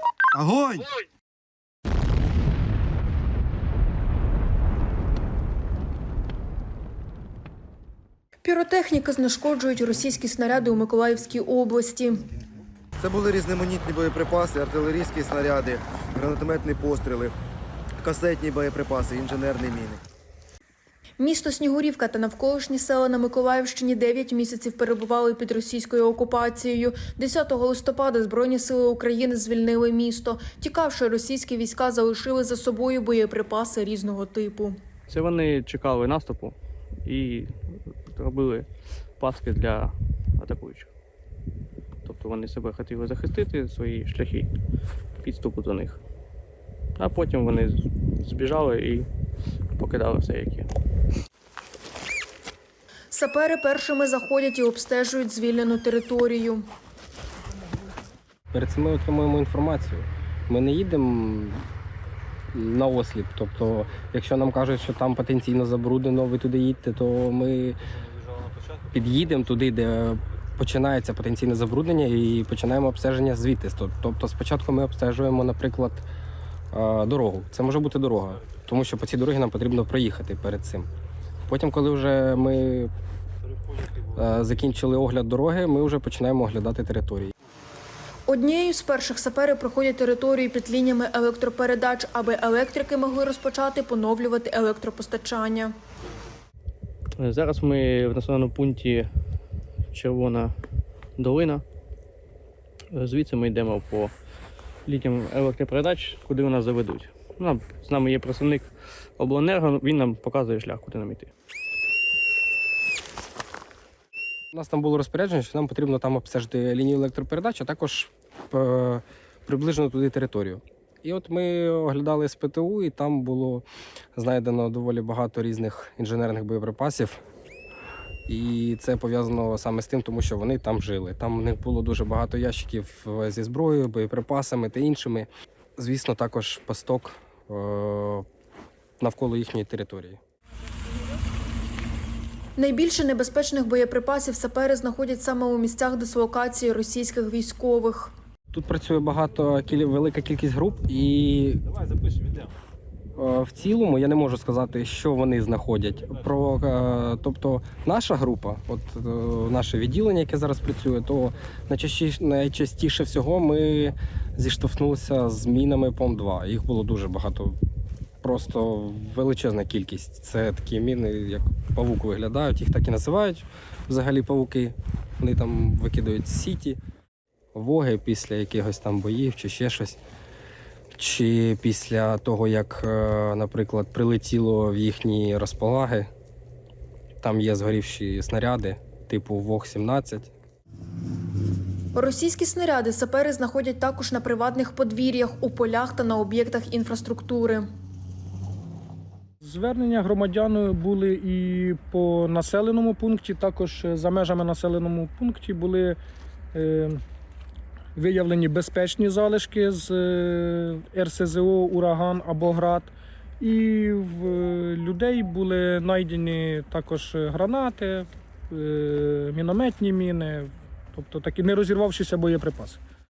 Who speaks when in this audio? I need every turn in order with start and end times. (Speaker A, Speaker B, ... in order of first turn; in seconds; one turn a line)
Speaker A: 0.4-0.9
Speaker B: 8.4-12.3
Speaker A: 13.0-17.4
Speaker A: 18.0-20.0
Speaker B: 21.2-34.8
Speaker C: 35.1-38.7
Speaker C: 39.2-40.9
Speaker C: 42.0-44.5
Speaker C: 45.2-46.0
Speaker C: 47.0-49.1
Speaker C: 49.8-50.7
Speaker B: 53.1-56.7
Speaker D: 58.5-61.7
Speaker D: 62.5-67.8
Speaker D: 68.9-76.1
Speaker D: 76.7-80.9
Speaker D: 81.5-82.9
Speaker D: 84.1-87.3
Speaker B: 88.3-95.7
Speaker C: 97.2-99.1
Speaker C: 99.9-100.5
Speaker C: 101.2-101.6
Speaker C: 102.9-104.1
Speaker C: 104.9-108.7
Speaker C: 109.2-111.3
Speaker D: 114.5-127.2
Speaker D: 128.3-138.3
Speaker D: 139.0-140.2
Speaker B: 142.6-148.1
Speaker D: 148.5-151.7
Speaker D: 153.2-167.6
Speaker D: 168.2-176.8
Speaker D: 177.6-180.0
Speaker D: 180.9-186.1
Speaker D: 187.2-190.3
Speaker B: 191.9-197.7
Speaker E: 199.4-206.0
Speaker E: 206.5-207.0
Speaker E: 208.0-222.8